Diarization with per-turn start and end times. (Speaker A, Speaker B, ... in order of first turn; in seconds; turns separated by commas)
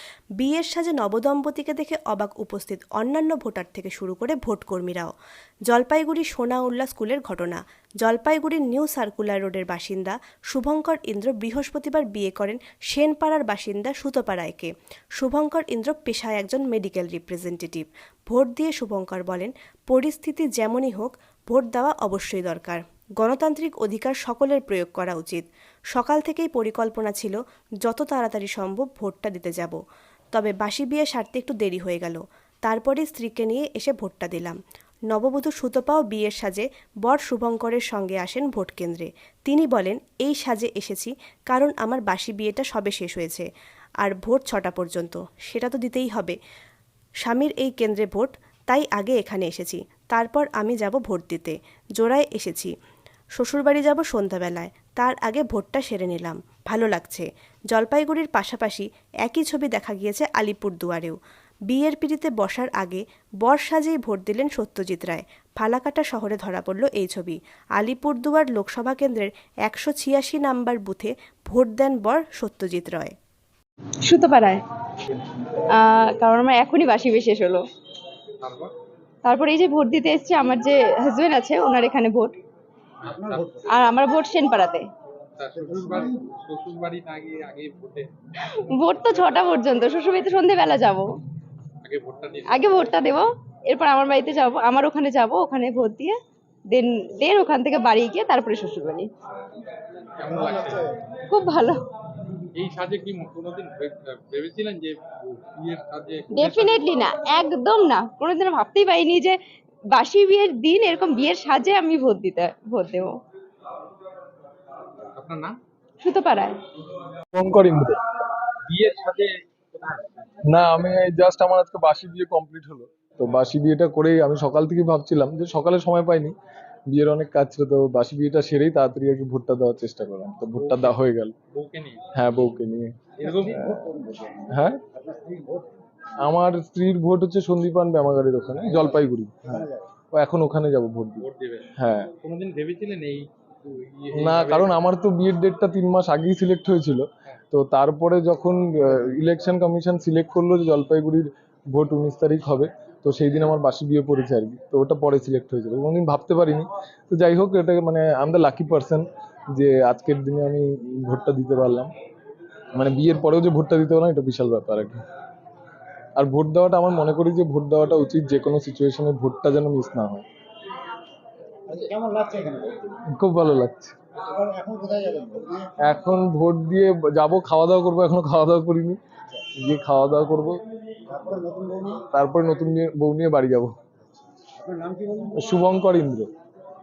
Speaker A: 0.4-5.1, Speaker A: 5.7-25.4, Speaker A: 25.9-29.8, Speaker A: 30.3-34.6, Speaker A: 35.1-43.5, Speaker A: 44.0-46.4, Speaker A: 47.2-52.7, Speaker A: 53.4-61.2, Speaker A: 61.7-73.2, Speaker B: 74.0-74.6, Speaker B: 75.7-77.6, Speaker C: 78.4-78.7, Speaker B: 79.2-82.4, Speaker C: 83.0-83.6, Speaker D: 83.1-83.7, Speaker B: 83.7-84.9, Speaker C: 85.4-88.1, Speaker D: 85.5-86.3, Speaker B: 88.5-91.2, Speaker C: 91.8-93.2, Speaker B: 92.5-96.2, Speaker B: 96.7-99.1, Speaker C: 100.2-100.9, Speaker D: 100.3-101.0, Speaker B: 101.3-101.8, Speaker C: 102.5-106.8, Speaker B: 106.3-109.4, Speaker B: 109.9-113.2, Speaker C: 115.2-115.5, Speaker B: 116.0-116.6, Speaker E: 117.3-118.0, Speaker C: 118.7-120.0, Speaker E: 120.5-126.3, Speaker E: 126.9-131.3, Speaker C: 130.6-131.0, Speaker C: 131.5-132.1, Speaker E: 132.2-133.0, Speaker C: 133.2-133.7, Speaker D: 133.2-135.8, Speaker E: 134.5-134.8, Speaker E: 136.2-139.6, Speaker D: 138.7-139.9, Speaker E: 140.1-141.3, Speaker C: 141.2-144.8, Speaker E: 141.8-142.1, Speaker E: 144.2-161.9, Speaker E: 162.8-165.0, Speaker E: 166.2-170.3, Speaker D: 171.7-172.9, Speaker E: 173.1-173.9, Speaker D: 174.2-175.7, Speaker E: 175.8-179.0, Speaker E: 179.6-180.6, Speaker D: 181.1-182.0, Speaker E: 182.1-183.8, Speaker D: 184.6-185.4, Speaker E: 185.3-186.3